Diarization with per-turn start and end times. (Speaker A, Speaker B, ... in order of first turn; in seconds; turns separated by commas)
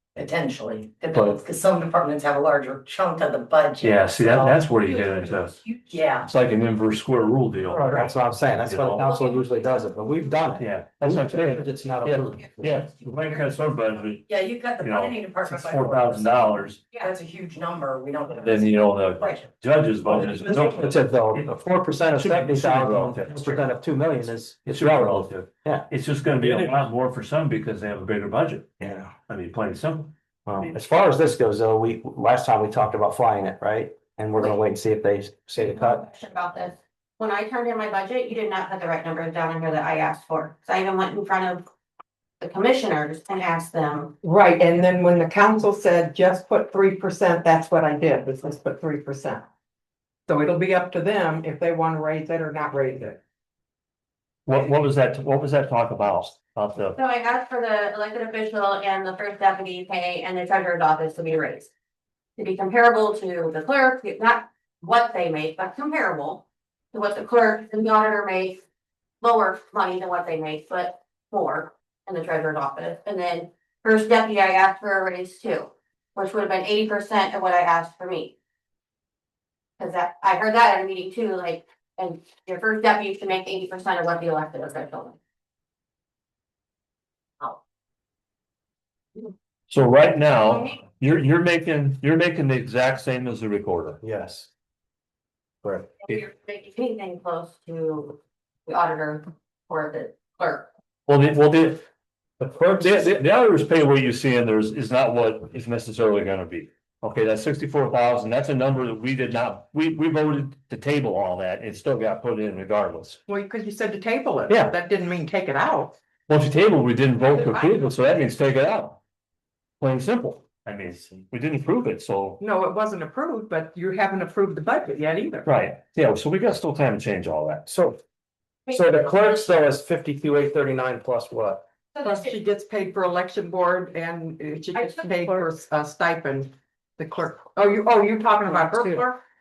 Speaker A: 0.1-6.3, Speaker B: 3.8-5.6, Speaker B: 6.2-9.1, Speaker C: 7.7-12.9, Speaker B: 10.6-14.2, Speaker A: 14.3-19.5, Speaker B: 14.8-16.8, Speaker B: 18.3-21.5, Speaker C: 20.1-25.9, Speaker B: 22.1-23.7, Speaker B: 24.7-28.7, Speaker C: 26.4-26.8, Speaker C: 28.8-29.1, Speaker B: 29.3-30.7, Speaker C: 30.4-36.0, Speaker D: 35.7-41.6, Speaker D: 42.4-44.1, Speaker E: 44.2-49.4, Speaker E: 50.3-53.2, Speaker B: 54.5-57.0, Speaker D: 57.0-61.7, Speaker D: 62.4-68.6, Speaker D: 69.2-78.3, Speaker D: 79.8-85.2, Speaker B: 89.7-94.0, Speaker D: 90.4-90.8, Speaker C: 94.0-94.5, Speaker C: 95.6-95.9, Speaker D: 96.0-100.7, Speaker B: 101.1-101.8, Speaker C: 102.4-103.1, Speaker B: 102.4-113.2, Speaker E: 113.3-115.9, Speaker B: 114.5-114.8, Speaker B: 116.3-119.0, Speaker B: 119.8-122.4, Speaker E: 122.4-125.5, Speaker B: 125.4-127.7, Speaker C: 127.7-128.0, Speaker D: 128.7-129.3, Speaker C: 128.7-131.6, Speaker D: 131.9-132.3, Speaker E: 132.0-139.2, Speaker D: 134.7-135.5, Speaker D: 138.4-139.0